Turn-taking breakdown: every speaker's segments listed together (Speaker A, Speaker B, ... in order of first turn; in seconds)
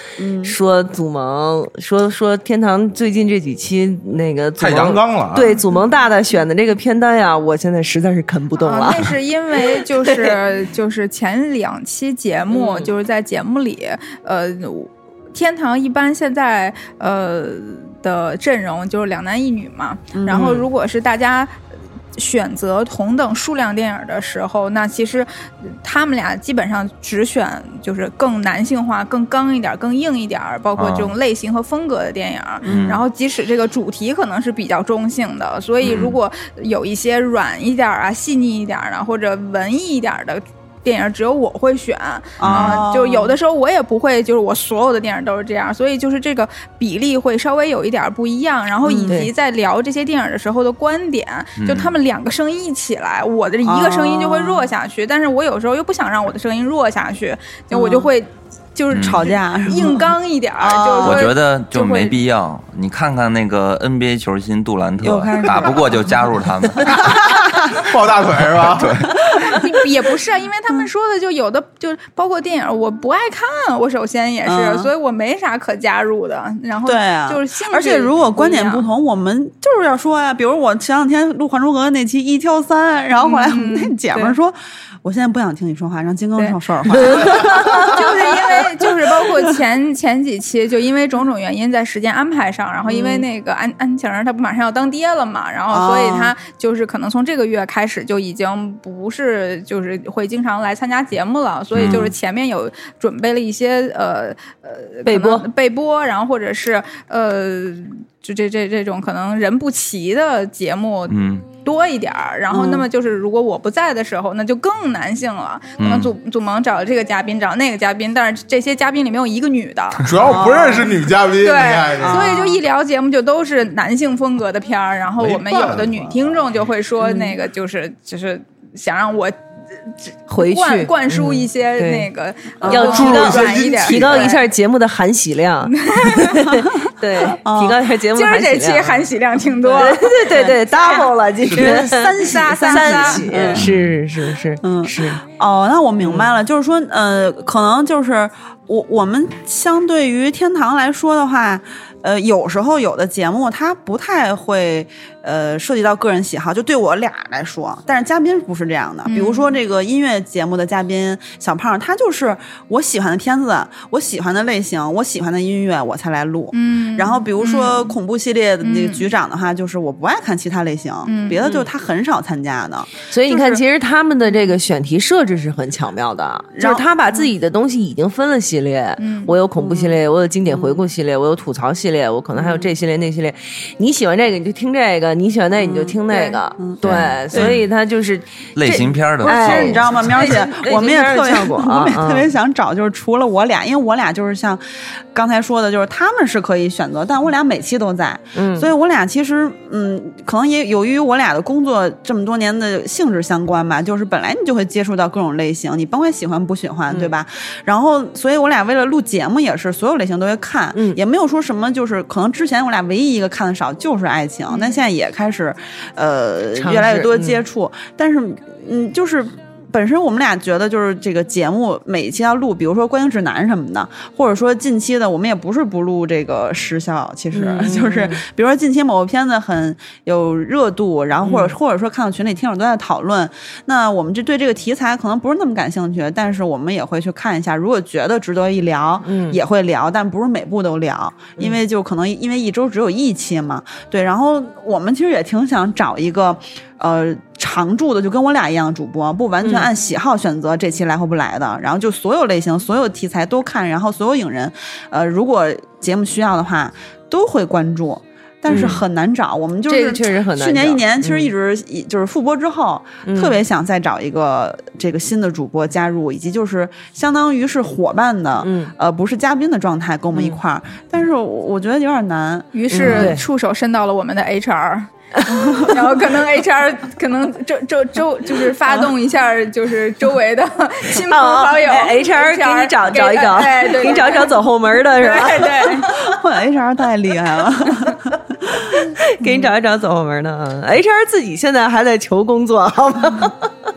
Speaker A: 0.2-0.6, 20.1-20.5, 32.6-33.0, 42.4-43.4, 48.8-49.2, 53.6-54.7, 57.7-58.1, 58.9-61.3, 65.0-65.9, 66.8-67.9, 69.3-69.7, 74.5-74.9, 76.9-89.4, 92.8-93.2, 95.7-96.3, 101.9-102.1, 112.5-112.9, 120.2-121.0, 122.0-122.6, 132.6-132.9, 136.6-137.8, 140.3-143.7, 144.6-173.6, 176.6-177.3, 179.6-180.8, 182.3-182.7, 185.6-187.6, 189.2-273.2, 275.3-275.7, 285.8-289.5
Speaker B: 0.4-10.4, 12.5-12.9, 20.3-20.7, 87.2-87.9, 105.0-105.5, 127.0-127.4, 130.3-132.1, 132.7-139.1, 139.6-145.2, 146.0-146.3, 171.4-171.7, 173.1-192.3, 198.3-198.7, 216.6-217.4, 227.3-228.2, 231.2-231.5, 239.0-239.4, 258.5-258.8, 259.7-261.3, 263.0-263.4, 268.4-268.7, 270.1-270.4, 272.7-273.3, 275.2-275.7, 281.0-285.9, 288.7-293.5
Speaker C: 4.6-5.5, 66.9-69.0, 120.0-122.4, 125.2-126.5, 132.8-134.3
Speaker D: 5.5-5.8, 8.6-21.6, 22.2-62.2, 69.3-78.9, 83.2-84.4, 86.4-120.1, 121.3-129.4, 129.9-134.4, 135.7-136.4, 138.1-143.5, 159.1-159.6, 166.5-167.9, 168.6-169.1, 171.1-171.4, 179.0-179.3, 272.5-274.9, 275.5-285.9
Speaker E: 30.8-31.1, 32.6-33.0, 35.8-36.2, 42.4-42.8, 51.6-52.0, 58.9-59.2, 61.0-67.2, 68.7-69.1, 101.7-102.1, 111.1-111.5, 115.8-116.1, 143.6-143.9, 186.8-187.7, 188.6-190.2